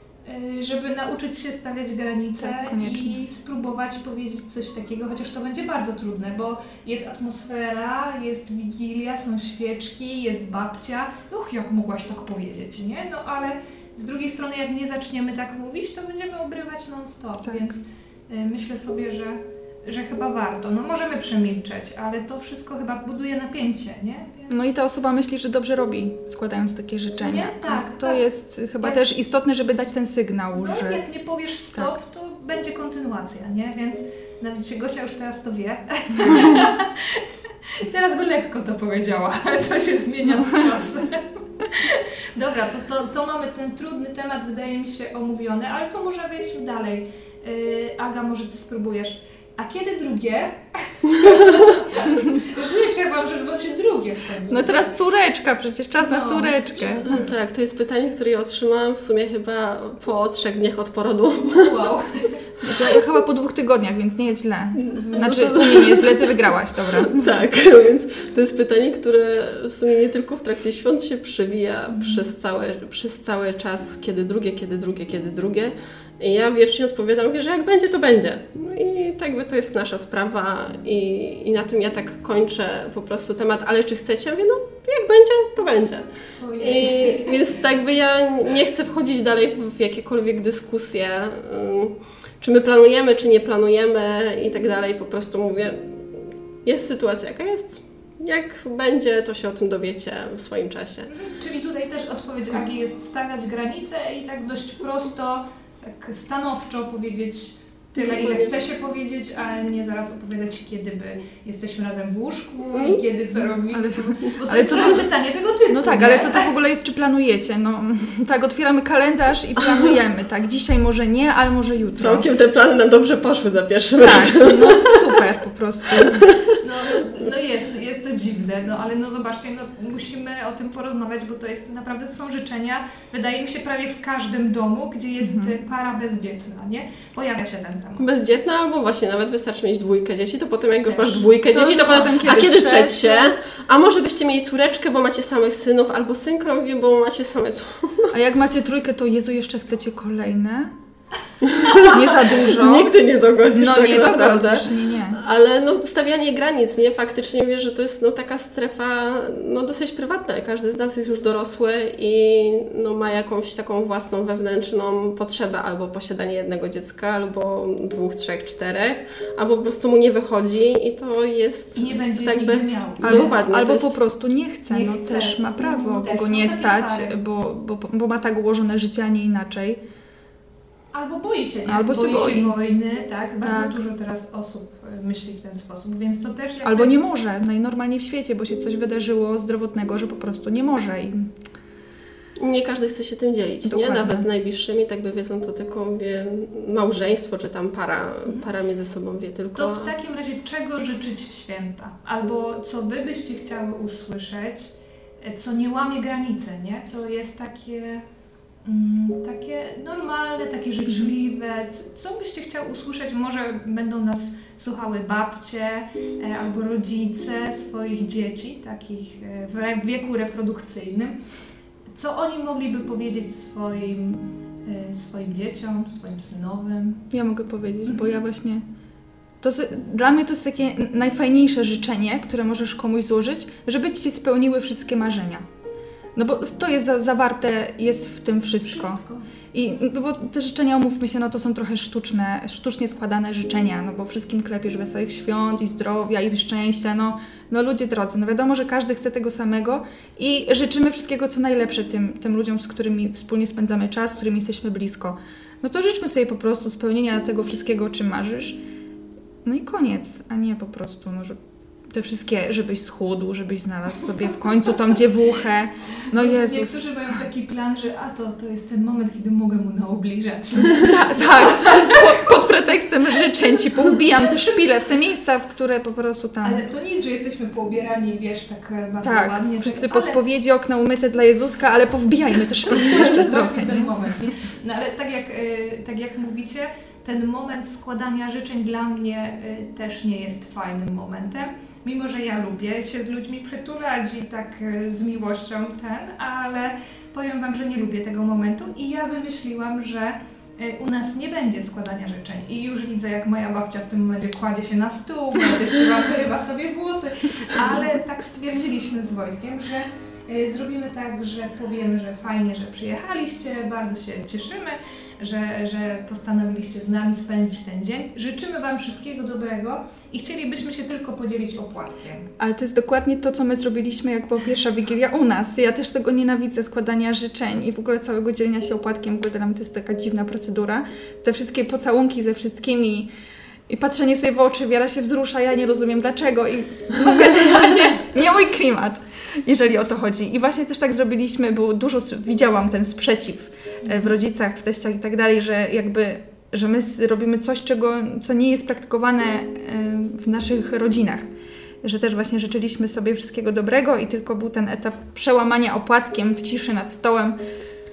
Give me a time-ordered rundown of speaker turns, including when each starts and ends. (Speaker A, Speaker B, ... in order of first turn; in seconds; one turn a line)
Speaker A: 0.2-24.7
Speaker B: 2.4-3.2
Speaker B: 17.4-17.8
Speaker B: 24.5-31.0
Speaker A: 27.1-29.0
Speaker A: 30.6-54.9
Speaker B: 54.5-57.2
Speaker A: 56.0-57.3
Speaker C: 57.0-61.9
Speaker A: 61.6-62.5
Speaker B: 62.6-67.2
Speaker C: 64.8-101.1
Speaker A: 72.0-72.2
Speaker A: 86.4-87.4
Speaker A: 101.1-116.5
Speaker C: 108.0-108.6
Speaker C: 112.7-113.0
Speaker B: 113.4-115.1
Speaker B: 115.7-122.3
Speaker C: 122.0-125.2
Speaker B: 124.0-126.4
Speaker C: 125.9-126.3
Speaker A: 126.6-138.1
Speaker B: 135.2-135.6
Speaker C: 138.0-148.1
Speaker B: 141.0-143.3
Speaker B: 148.1-150.8
Speaker C: 151.4-173.9
Speaker B: 151.7-152.9
Speaker B: 153.5-155.2
Speaker A: 171.8-173.3
Speaker B: 173.0-179.8
Speaker A: 174.7-177.2
Speaker A: 180.9-187.0
Speaker B: 181.7-182.5
Speaker B: 183.4-183.8
Speaker B: 186.6-191.3
Speaker C: 192.4-199.9
Speaker B: 193.7-194.3
Speaker A: 199.5-208.1
Speaker A: 208.6-221.3
Speaker A: 221.9-227.1
Speaker B: 227.1-228.6
Speaker B: 229.4-235.5
Speaker B: 236.2-239.0
Speaker A: 238.6-239.3
Speaker B: 239.5-258.6
Speaker B: 259.4-266.9
Speaker A: 266.1-272.0
Speaker B: 270.8-276.7
Speaker A: 276.4-280.2
Speaker B: 279.0-284.3
Speaker A: 282.7-322.3
Speaker B: 322.4-333.1
Speaker B: 333.7-351.3
Speaker B: 351.8-357.4